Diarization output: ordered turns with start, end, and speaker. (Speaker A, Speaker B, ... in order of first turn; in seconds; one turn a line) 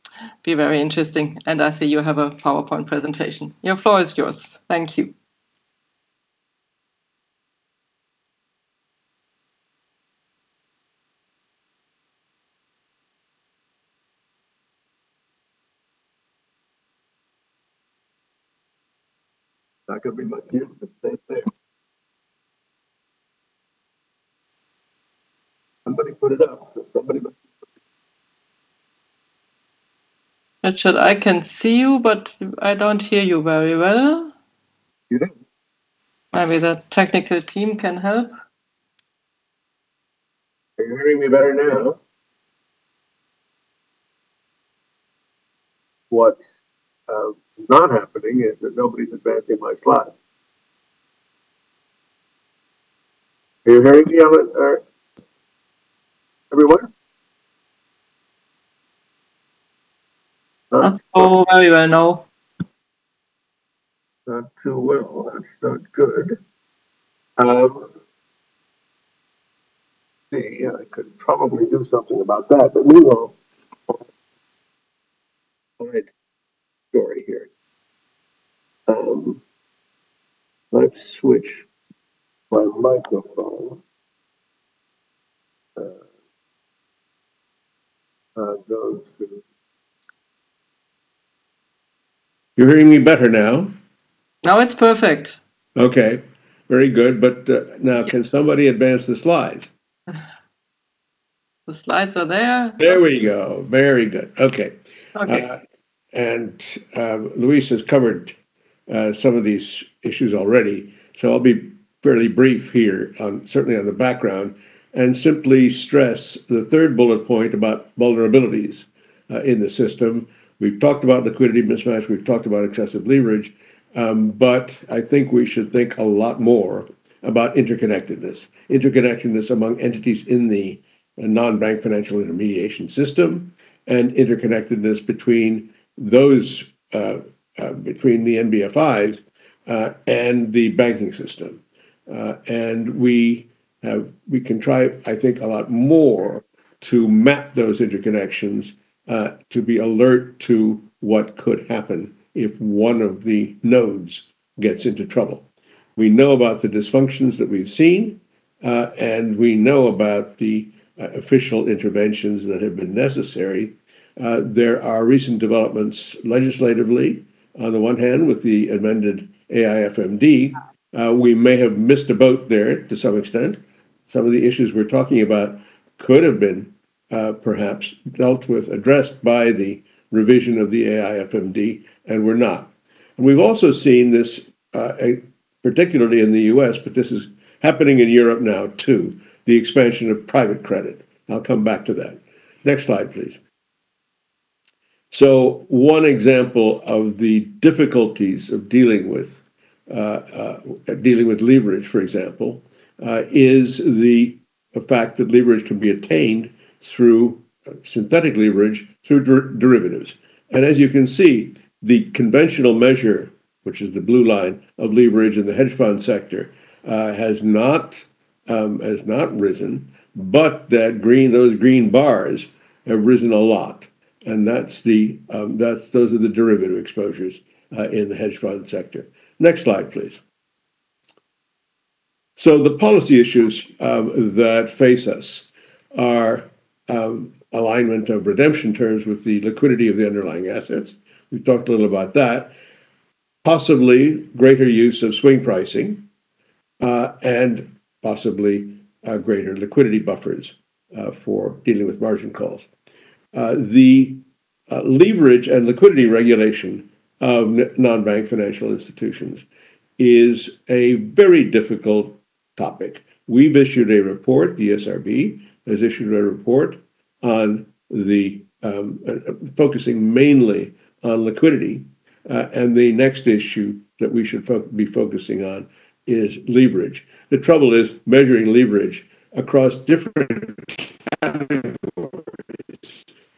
Speaker A: 0.4-5.1
Speaker B: 19.9-21.5
Speaker B: 25.9-27.3
Speaker A: 30.6-34.3
Speaker A: 36.3-38.3
Speaker B: 40.8-42.0
Speaker B: 46.1-46.4
Speaker B: 47.1-50.1
Speaker B: 53.6-54.8
Speaker B: 56.5-56.9
Speaker A: 60.8-62.2
Speaker B: 64.3-66.4
Speaker B: 67.4-67.9
Speaker B: 70.3-73.3
Speaker B: 75.8-76.1
Speaker B: 76.9-77.5
Speaker B: 78.9-79.4
Speaker B: 80.7-81.6
Speaker B: 82.5-83.8
Speaker B: 88.3-89.4
Speaker C: 92.6-93.7
Speaker A: 94.4-95.4
Speaker C: 95.8-99.7
Speaker A: 101.7-103.0
Speaker C: 102.8-105.6
Speaker A: 105.2-105.4
Speaker C: 106.1-108.3
Speaker C: 108.9-155.4
Speaker C: 156.0-193.4
Speaker C: 195.1-230.2
Speaker C: 232.4-242.5
Speaker C: 243.4-246.0
Speaker C: 246.8-252.7
Speaker C: 253.3-259.4
Speaker C: 260.0-283.0